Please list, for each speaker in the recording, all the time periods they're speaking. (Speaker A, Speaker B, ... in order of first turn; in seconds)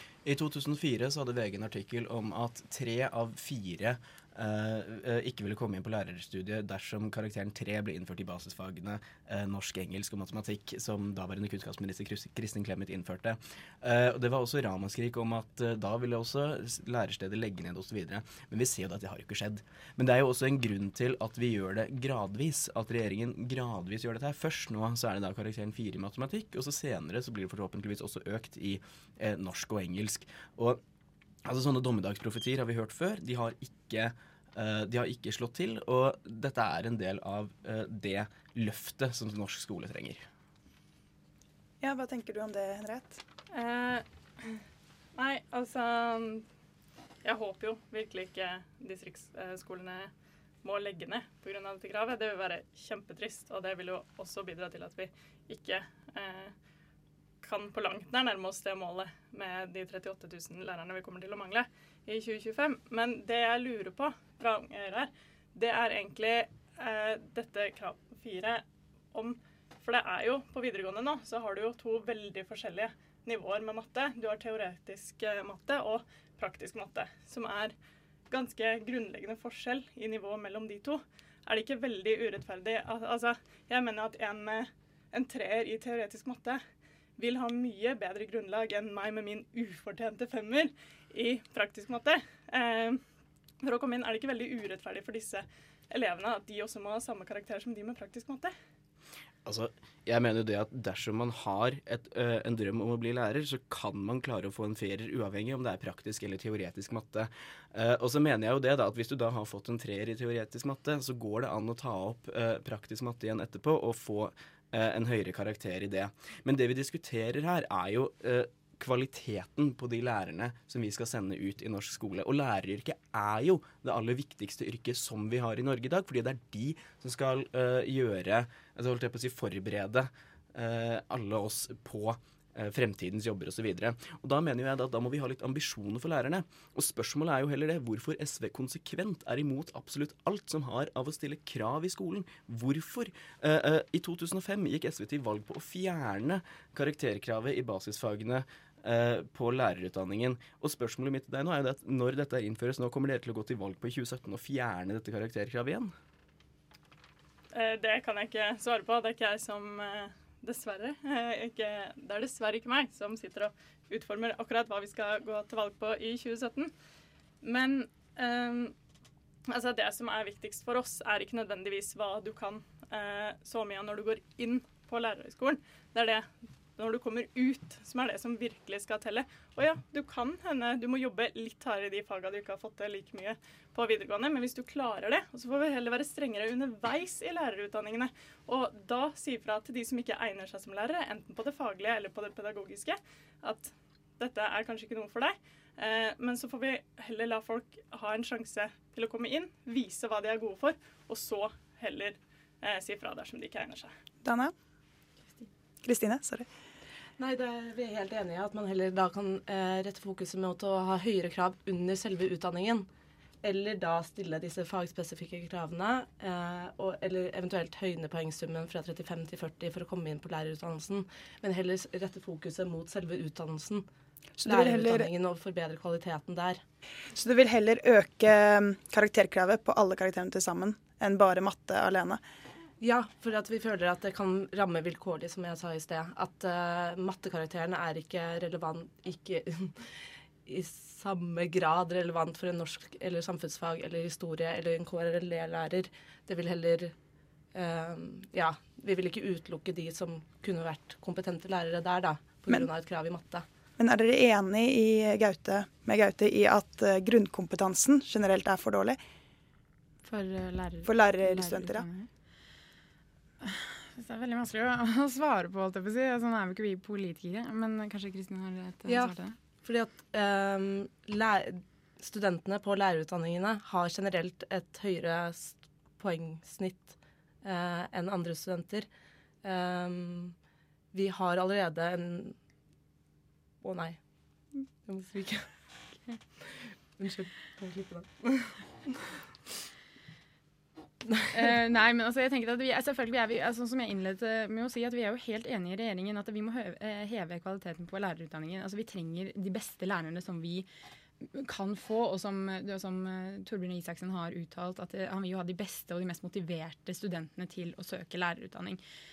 Speaker A: 0.2-30.8, 31.4-40.2, 99.4-155.9
Speaker B: 41.8-43.2, 204.2-204.5, 205.8-206.5, 224.4-225.1, 227.1-232.2, 253.8-259.0, 260.8-261.9
Speaker C: 43.5-44.6, 45.1-46.5, 47.2-50.1, 50.6-56.5, 57.4-77.7, 78.3-86.6, 87.2-93.0, 93.6-98.5, 157.5-166.7, 167.4-168.7, 169.5-203.9
Speaker D: 207.2-212.9, 213.4-223.8, 224.4-226.6, 232.8-246.9, 247.5-253.4, 268.9-278.9, 279.4-280.4, 280.9-282.4, 283.6-284.0, 284.8-285.5, 286.4-289.1
Speaker E: 260.0-262.1, 263.4-269.4, 291.3-300.7, 301.2-308.8